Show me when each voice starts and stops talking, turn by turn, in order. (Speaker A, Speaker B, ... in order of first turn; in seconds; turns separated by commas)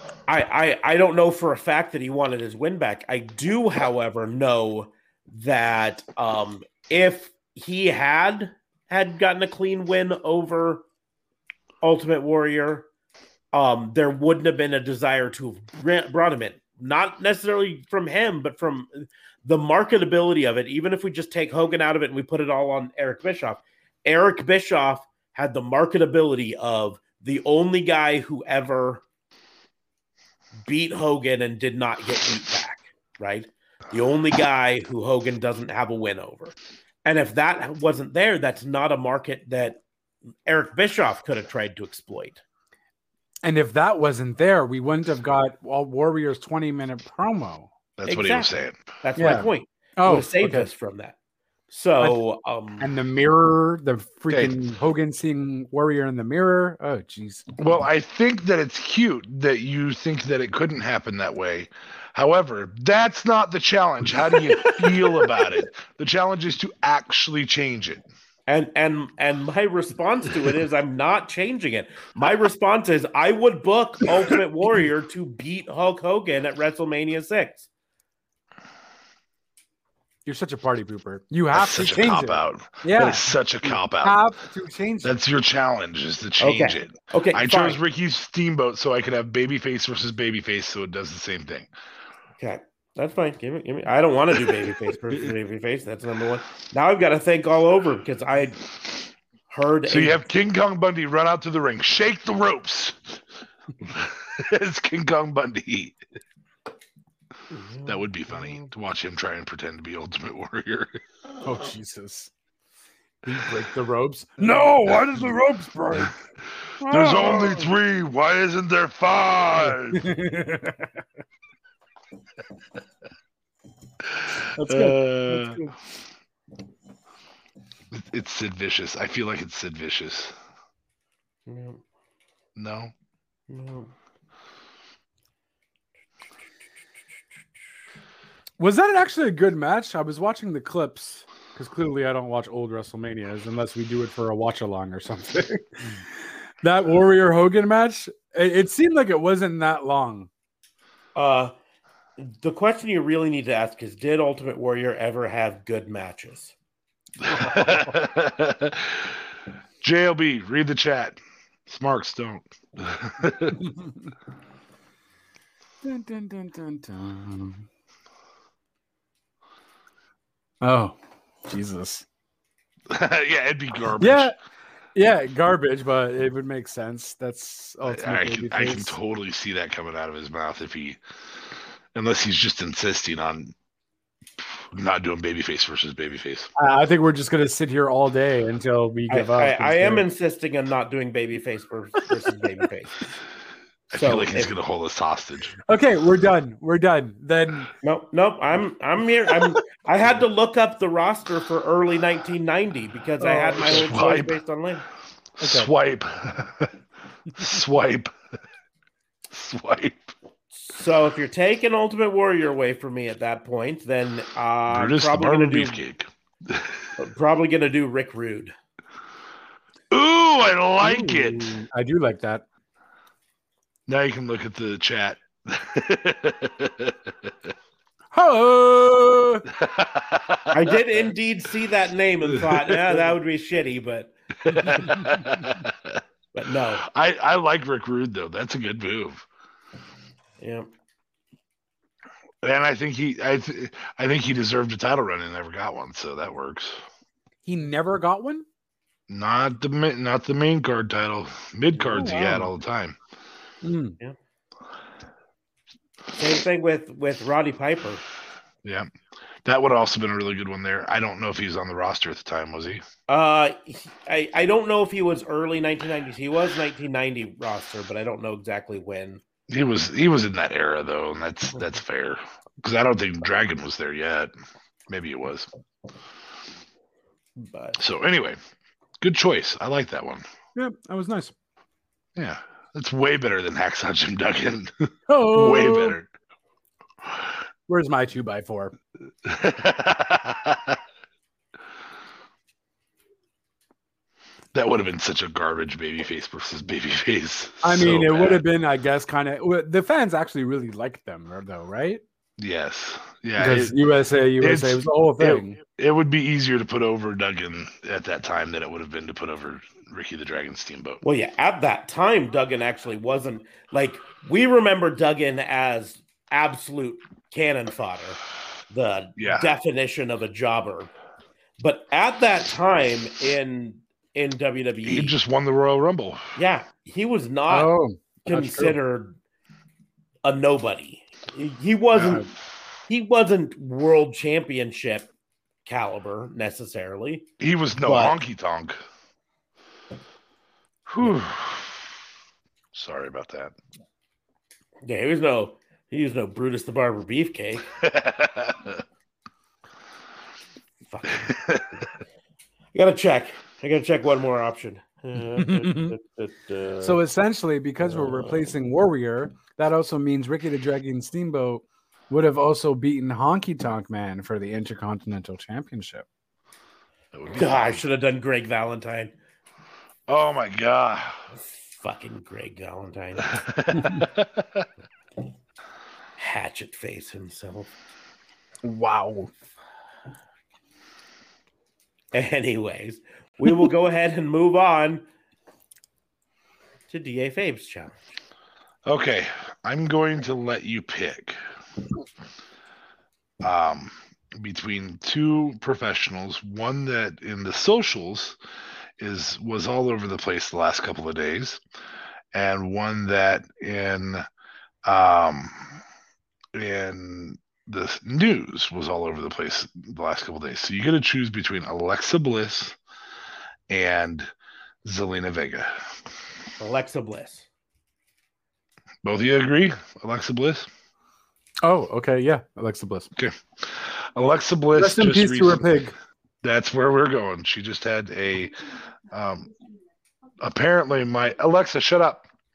Speaker A: 0.3-10.8, Speaker A: 11.8-12.9, Speaker A: 13.5-29.0, Speaker A: 30.7-39.8, Speaker A: 40.5-42.4, Speaker B: 43.4-47.7, Speaker C: 48.0-48.8, Speaker A: 48.1-51.2, Speaker B: 49.2-50.7, Speaker A: 51.7-52.9, Speaker B: 52.8-57.5, Speaker C: 57.6-68.0, Speaker B: 64.5-65.3, Speaker A: 68.5-77.7, Speaker B: 80.3-85.1, Speaker C: 81.5-84.2, Speaker C: 85.0-91.7, Speaker A: 86.4-87.8, Speaker A: 92.4-98.6, Speaker A: 99.5-100.2, Speaker C: 99.9-103.2, Speaker C: 103.8-106.0, Speaker A: 107.5-108.7, Speaker C: 107.9-111.0, Speaker B: 111.4-112.3, Speaker B: 113.2-116.1, Speaker C: 114.6-115.2, Speaker C: 116.8-120.1, Speaker B: 116.8-117.7, Speaker B: 119.6-121.0, Speaker C: 124.1-125.6, Speaker B: 124.6-125.7, Speaker C: 127.9-130.3, Speaker A: 131.5-131.8, Speaker C: 132.6-132.9, Speaker A: 133.5-133.9, Speaker B: 138.6-150.3, Speaker A: 151.2-151.5, Speaker A: 152.2-156.6, Speaker C: 157.2-159.2, Speaker B: 157.3-157.9, Speaker C: 159.8-163.6, Speaker B: 163.6-163.9, Speaker B: 165.8-167.7, Speaker B: 170.6-172.1, Speaker C: 172.9-174.3, Speaker B: 174.0-174.3, Speaker B: 174.9-179.0, Speaker C: 177.9-181.0, Speaker C: 181.9-183.5, Speaker C: 184.6-186.5, Speaker B: 186.6-190.1, Speaker A: 189.1-193.1, Speaker C: 193.9-195.6, Speaker A: 193.9-194.5, Speaker B: 195.7-197.7, Speaker A: 197.8-204.8, Speaker B: 203.2-203.9, Speaker C: 203.6-204.4, Speaker C: 205.4-206.7, Speaker B: 205.4-205.7, Speaker C: 207.3-208.1, Speaker C: 209.3-210.1, Speaker A: 210.5-215.8, Speaker C: 214.7-216.8, Speaker A: 217.0-218.5, Speaker C: 219.9-221.6, Speaker B: 220.8-222.4, Speaker C: 223.9-227.3, Speaker B: 228.1-229.4, Speaker C: 229.5-230.7, Speaker A: 230.5-234.1, Speaker C: 232.3-232.9, Speaker C: 234.4-236.0, Speaker A: 236.3-236.8, Speaker C: 236.8-239.2, Speaker A: 240.4-240.7, Speaker C: 242.4-246.8, Speaker B: 247.4-248.5, Speaker C: 249.1-253.0, Speaker B: 251.8-252.5, Speaker B: 253.6-254.0, Speaker A: 256.1-258.0, Speaker C: 258.6-258.9, Speaker C: 259.4-262.8, Speaker A: 263.1-269.2, Speaker C: 269.5-274.3, Speaker C: 274.9-275.5, Speaker A: 277.4-277.8, Speaker C: 277.8-278.4, Speaker C: 279.0-280.2, Speaker B: 280.6-281.4, Speaker C: 282.2-286.1, Speaker B: 285.1-286.0, Speaker B: 287.7-288.7, Speaker C: 289.2-290.8, Speaker C: 294.5-298.4, Speaker B: 297.6-302.0, Speaker C: 302.4-303.8, Speaker B: 303.4-305.6, Speaker C: 304.4-311.0, Speaker A: 311.0-320.9, Speaker C: 319.2-319.5, Speaker A: 321.6-325.1, Speaker C: 324.9-326.3, Speaker A: 326.4-327.7, Speaker B: 327.5-328.8, Speaker A: 328.3-329.2, Speaker A: 330.2-332.3, Speaker A: 332.9-335.1, Speaker A: 335.7-337.3, Speaker C: 337.4-338.8, Speaker A: 337.8-338.1, Speaker C: 340.9-341.8, Speaker C: 342.7-343.5, Speaker A: 344.9-347.7, Speaker C: 347.7-348.8, Speaker A: 350.9-351.3, Speaker C: 351.2-351.8, Speaker A: 352.7-357.0, Speaker B: 355.4-355.9, Speaker B: 356.8-366.1, Speaker A: 357.8-358.5, Speaker C: 367.1-367.8, Speaker A: 367.4-369.1, Speaker C: 370.1-371.2, Speaker A: 371.6-373.4, Speaker C: 373.3-374.7, Speaker A: 376.2-377.8, Speaker B: 378.6-379.3, Speaker A: 382.1-385.1, Speaker A: 386.9-388.1, Speaker C: 388.9-391.4, Speaker C: 393.4-398.4, Speaker C: 399.0-401.6, Speaker C: 402.3-404.2, Speaker C: 404.9-405.7, Speaker C: 406.5-412.8, Speaker C: 413.7-414.3, Speaker C: 414.9-415.7, Speaker A: 416.6-417.5, Speaker C: 419.0-420.7, Speaker B: 421.6-423.1, Speaker C: 423.2-425.7, Speaker B: 424.8-425.9, Speaker C: 426.4-428.6, Speaker C: 429.1-429.5, Speaker C: 430.4-432.3